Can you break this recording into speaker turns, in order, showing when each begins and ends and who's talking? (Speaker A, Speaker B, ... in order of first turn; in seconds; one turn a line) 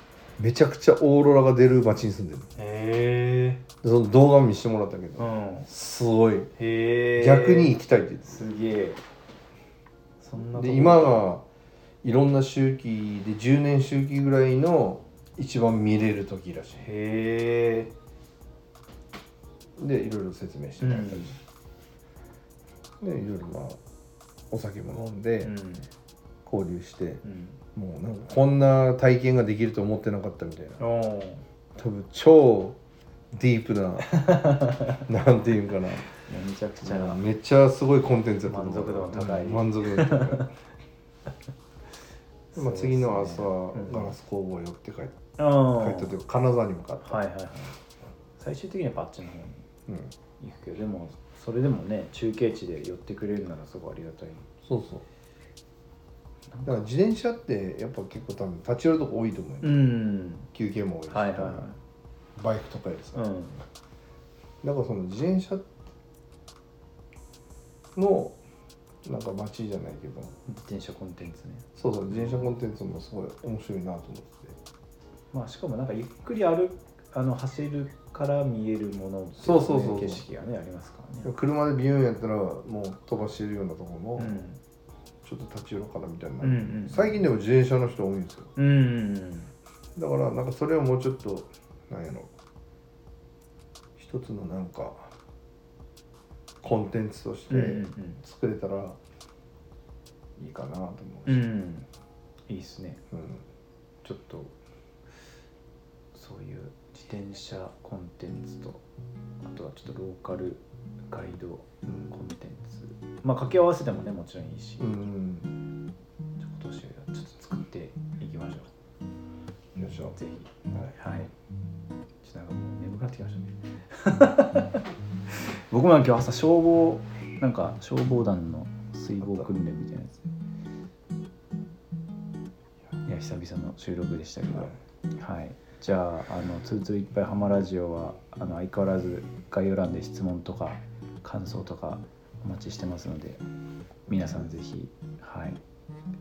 Speaker A: 0.4-2.5
Speaker B: 2.5-3.6
Speaker A: 3.8-6.5
Speaker B: 5.2-5.7
Speaker B: 6.6-7.7
Speaker A: 7.2-8.4
Speaker B: 8.2-9.0
Speaker B: 10.2-11.2
Speaker A: 10.5-11.4
Speaker A: 12.0-16.8
Speaker B: 16.8-17.9
Speaker A: 19.8-21.4
Speaker B: 20.8-21.4
Speaker A: 23.0-23.8
Speaker A: 24.5-25.5
Speaker B: 25.4-25.9
Speaker A: 26.4-27.2
Speaker B: 27.2-27.6
Speaker A: 27.7-30.8
Speaker B: 30.8-31.4
Speaker A: 31.8-32.8
Speaker A: 33.3-34.2
Speaker B: 34.1-35.0
Speaker A: 35.1-36.1
Speaker B: 36.1-37.2
Speaker A: 36.8-40.6
Speaker B: 38.5-40.5
Speaker B: 42.5-44.1
Speaker A: 42.5-47.2
Speaker B: 45.4-46.1
Speaker B: 47.0-47.8
Speaker B: 48.4-49.6
Speaker A: 49.9-50.1
Speaker B: 50.4-54.5
Speaker A: 54.6-55.0
Speaker B: 56.5-56.9
Speaker A: 56.6-59.8
Speaker B: 59.6-60.5
Speaker A: 60.5-61.7
Speaker B: 61.1-61.8
Speaker A: 62.4-63.2
Speaker B: 63.1-63.6
Speaker A: 64.6-65.7
Speaker A: 68.0-68.4
Speaker A: 69.0-70.3
Speaker B: 70.5-72.5
Speaker A: 71.8-74.6
Speaker B: 75.3-81.3
Speaker A: 79.4-80.2
Speaker A: 81.2-84.4
Speaker B: 84.2-84.6
Speaker A: 85.2-88.5
Speaker B: 86.4-87.2
Speaker B: 88.5-89.5
Speaker A: 90.0-92.3
Speaker A: 94.0-95.1
Speaker A: 96.6-99.0
Speaker B: 97.5-98.2
Speaker A: 100.4-101.5
Speaker B: 101.2-101.9
Speaker B: 102.5-103.0
Speaker A: 103.1-103.4
Speaker B: 104.0-104.5
Speaker B: 106.1-108.8
Speaker B: 109.4-114.9
Speaker A: 114.8-115.5
Speaker B: 116.4-118.7
Speaker A: 119.7-120.2
Speaker B: 120.1-121.3
Speaker A: 120.7-121.0
Speaker B: 122.2-130.3
Speaker A: 129.2-129.5
Speaker B: 133.1-143.4
Speaker A: 134.5-134.8
Speaker A: 144.1-144.5
Speaker B: 144.1-145.6